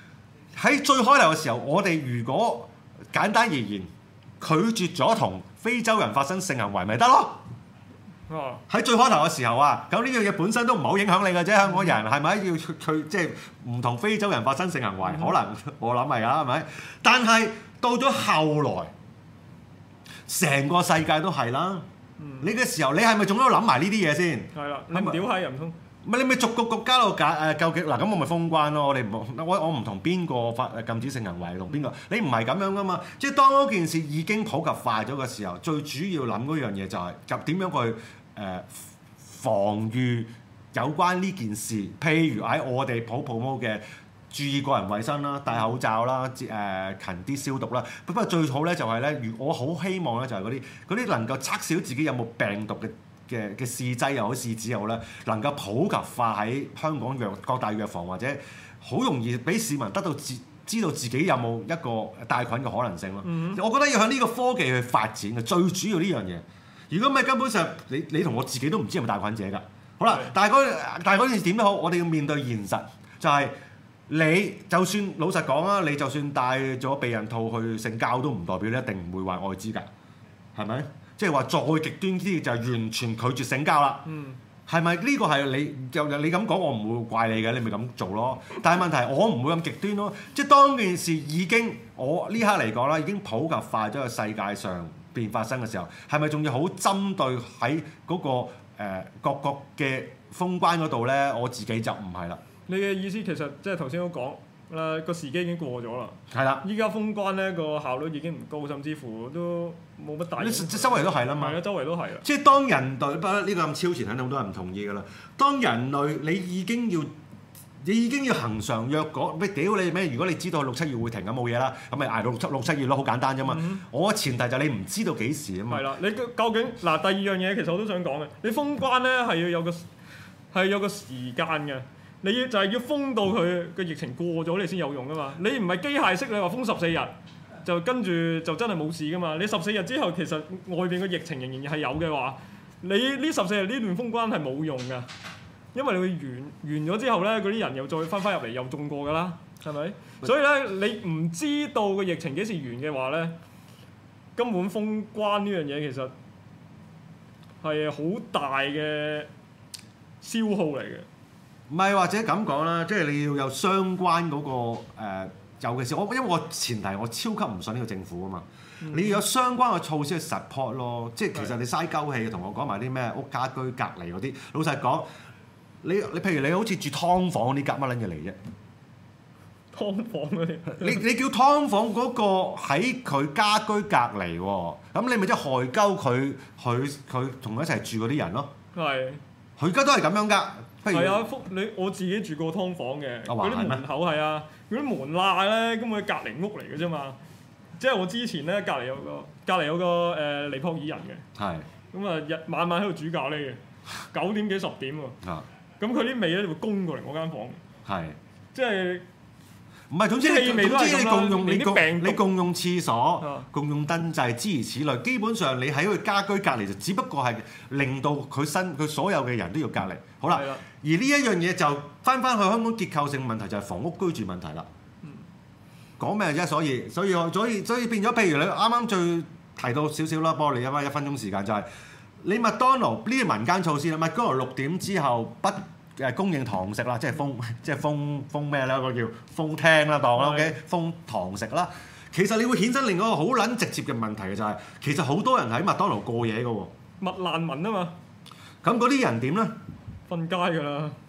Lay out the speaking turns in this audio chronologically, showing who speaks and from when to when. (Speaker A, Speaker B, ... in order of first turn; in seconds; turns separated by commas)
Speaker A: 0.5-7.4, Speaker B: 8.3-8.6, Speaker A: 8.7-18.9, Speaker B: 15.0-15.3, Speaker A: 20.3-21.9, Speaker B: 22.2-22.5, Speaker A: 22.4-25.2, Speaker B: 24.5-25.8, Speaker A: 26.0-73.5, Speaker B: 63.2-63.6, Speaker B: 70.0-70.3, Speaker A: 74.1-79.9, Speaker A: 80.5-84.1, Speaker B: 84.0-84.4, Speaker A: 84.7-102.4, Speaker B: 102.7-112.2, Speaker A: 106.3-106.6, Speaker A: 110.4-111.6, Speaker A: 112.2-117.1, Speaker A: 117.8-125.9, Speaker B: 123.4-123.8, Speaker B: 125.7-129.9, Speaker B: 130.5-145.1, Speaker B: 145.7-153.4, Speaker B: 154.4-156.1, Speaker B: 157.6-159.3, Speaker B: 160.2-161.1, Speaker A: 161.7-175.1, Speaker B: 168.8-169.2, Speaker A: 175.8-178.4, Speaker B: 179.7-181.0, Speaker A: 180.7-188.5, Speaker B: 188.7-189.2, Speaker A: 189.6-191.3, Speaker B: 190.9-197.2, Speaker A: 193.3-193.8, Speaker B: 197.8-201.2, Speaker A: 201.3-201.7, Speaker B: 201.9-203.6, Speaker B: 204.1-205.2, Speaker B: 205.8-207.6, Speaker A: 207.8-208.2, Speaker B: 208.5-209.1, Speaker A: 209.9-224.7, Speaker B: 210.2-212.2, Speaker B: 213.2-213.5, Speaker B: 220.3-220.6, Speaker A: 226.0-231.7, Speaker A: 232.2-246.7, Speaker B: 240.2-240.6, Speaker B: 247.0-247.9, Speaker A: 248.6-249.6, Speaker B: 250.1-251.0